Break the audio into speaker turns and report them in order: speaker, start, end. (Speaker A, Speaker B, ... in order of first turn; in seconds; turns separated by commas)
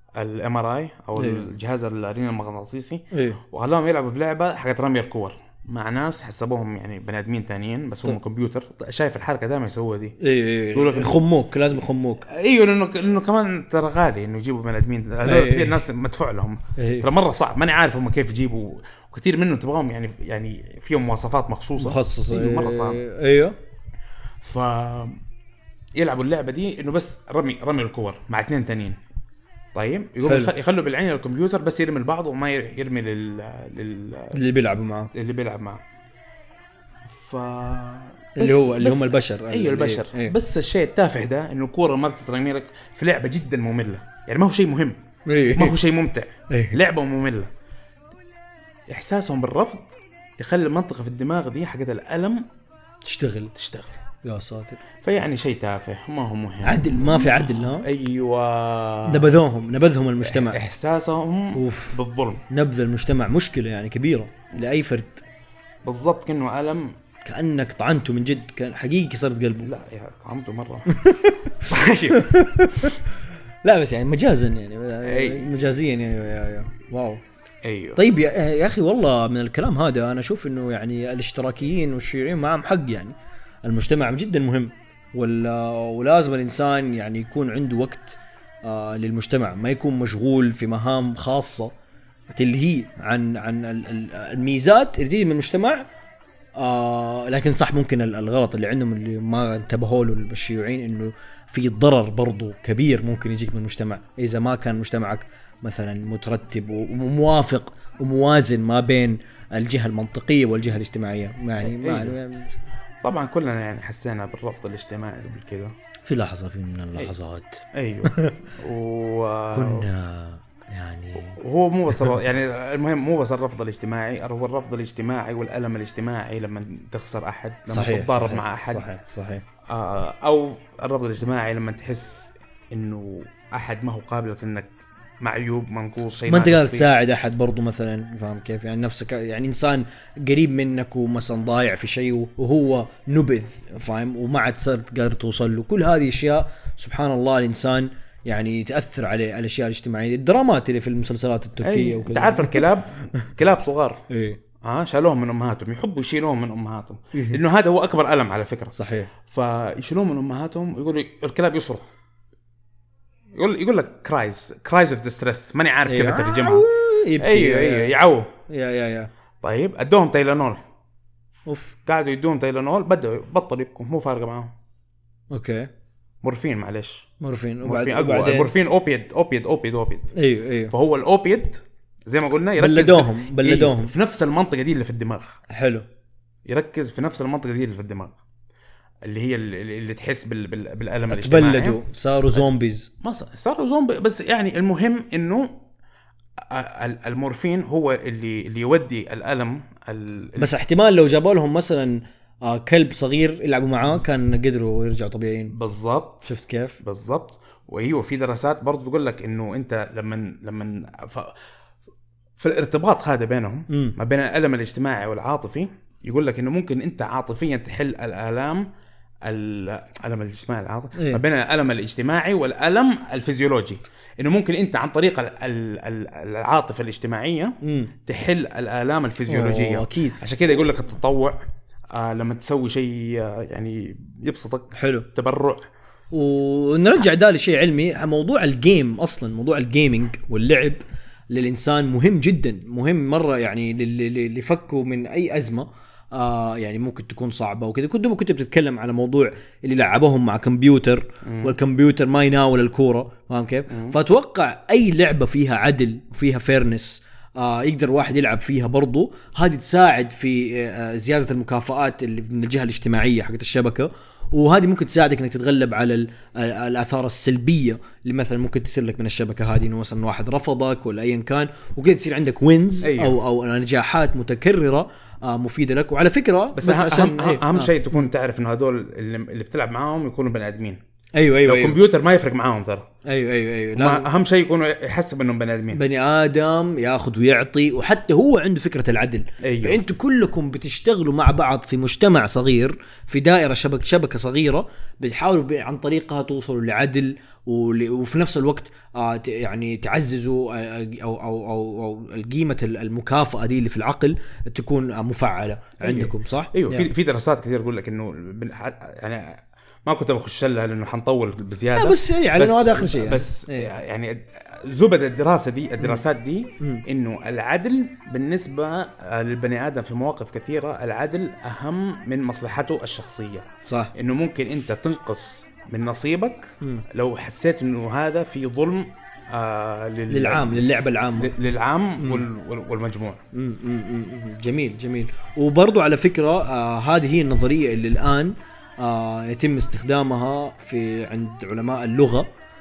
Speaker A: 0.1-10.2, Speaker B: 1.1-1.4, Speaker B: 3.1-3.4, Speaker B: 10.2-12.2, Speaker A: 10.7-11.3, Speaker A: 12.3-23.0, Speaker B: 15.2-15.8, Speaker B: 16.8-17.1, Speaker B: 21.8-23.6, Speaker A: 24.4-25.2, Speaker A: 25.9-28.9, Speaker A: 29.7-34.4, Speaker B: 30.2-30.5, Speaker B: 34.3-35.1, Speaker A: 35.1-35.8, Speaker A: 37.0-45.0, Speaker B: 38.4-40.3, Speaker B: 45.2-45.8, Speaker A: 45.5-47.5, Speaker B: 46.5-46.8, Speaker A: 48.9-52.4, Speaker B: 53.0-53.5, Speaker A: 53.5-54.0, Speaker B: 54.2-54.8, Speaker A: 55.0-59.4, Speaker B: 56.6-57.9, Speaker B: 59.1-60.6, Speaker A: 60.2-62.4, Speaker B: 61.5-65.2, Speaker A: 65.8-67.0, Speaker B: 67.2-69.7, Speaker A: 69.6-70.9, Speaker B: 70.9-73.0, Speaker A: 71.6-72.3, Speaker B: 73.6-77.2, Speaker A: 75.0-75.5, Speaker A: 77.6-78.0, Speaker B: 78.0-91.7, Speaker B: 92.3-95.9, Speaker B: 96.6-112.5, Speaker A: 111.6-112.2, Speaker A: 113.0-115.7, Speaker B: 116.0-118.4, Speaker A: 117.7-119.9, Speaker B: 119.5-122.1, Speaker A: 121.2-129.0, Speaker B: 127.7-129.4, Speaker A: 129.7-136.9, Speaker B: 136.3-152.7, Speaker A: 151.6-154.0, Speaker B: 154.1-154.4, Speaker A: 154.6-161.9, Speaker B: 157.1-157.4, Speaker B: 158.7-159.1, Speaker A: 163.3-166.7, Speaker B: 165.9-167.9, Speaker A: 167.2-168.3, Speaker B: 168.5-169.1, Speaker A: 169.4-170.6, Speaker B: 171.5-171.7, Speaker A: 171.8-174.5, Speaker B: 175.3-175.7, Speaker A: 176.2-177.1, Speaker B: 177.2-178.5, Speaker A: 177.6-180.1, Speaker B: 180.1-180.7, Speaker A: 180.7-185.4, Speaker B: 182.6-183.9, Speaker B: 185.5-185.8, Speaker A: 186.4-188.2, Speaker A: 189.0-191.8, Speaker B: 191.1-192.9, Speaker A: 193.0-195.6, Speaker A: 196.5-200.6, Speaker B: 200.4-205.5, Speaker A: 205.5-206.3, Speaker B: 206.2-206.8, Speaker A: 206.8-211.3, Speaker A: 212.4-218.7, Speaker B: 213.7-213.9, Speaker A: 219.2-231.4, Speaker B: 220.9-221.2, Speaker B: 227.6-227.9, Speaker B: 229.3-230.2, Speaker A: 231.9-235.6, Speaker B: 234.7-235.1, Speaker B: 236.1-277.8, Speaker A: 251.2-251.5, Speaker A: 253.7-254.0, Speaker A: 272.8-273.2, Speaker A: 276.6-280.8, Speaker B: 281.2-281.8, Speaker A: 281.4-282.9, Speaker B: 283.1-284.1, Speaker A: 283.7-285.8, Speaker B: 285.7-306.9, Speaker A: 289.4-289.8, Speaker A: 305.8-333.2, Speaker B: 311.7-313.7, Speaker B: 323.7-323.9, Speaker B: 330.1-331.3, Speaker B: 332.0-332.3, Speaker B: 333.3-342.3